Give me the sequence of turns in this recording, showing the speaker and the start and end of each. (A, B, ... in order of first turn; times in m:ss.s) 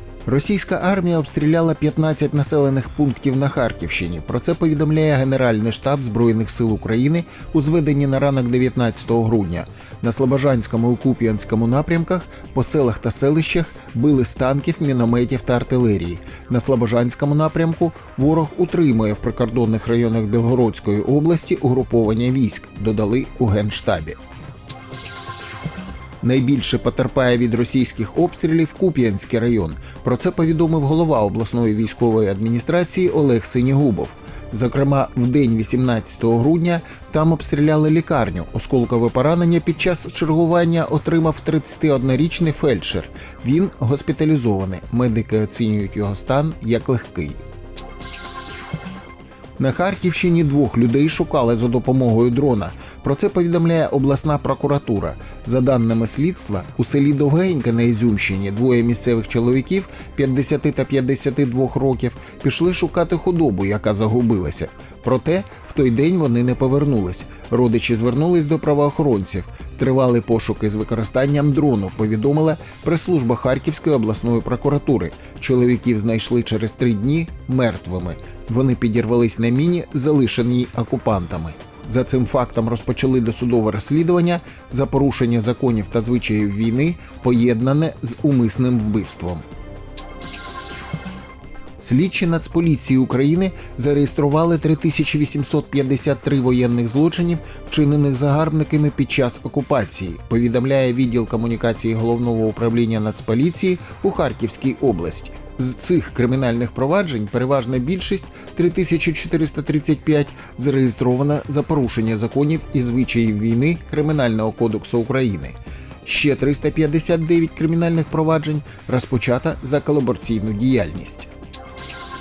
0:00.3-0:24.2 A
0:26.2-0:47.4 A
0:49.6-1:29.4 A
1:31.8-2:01.3 A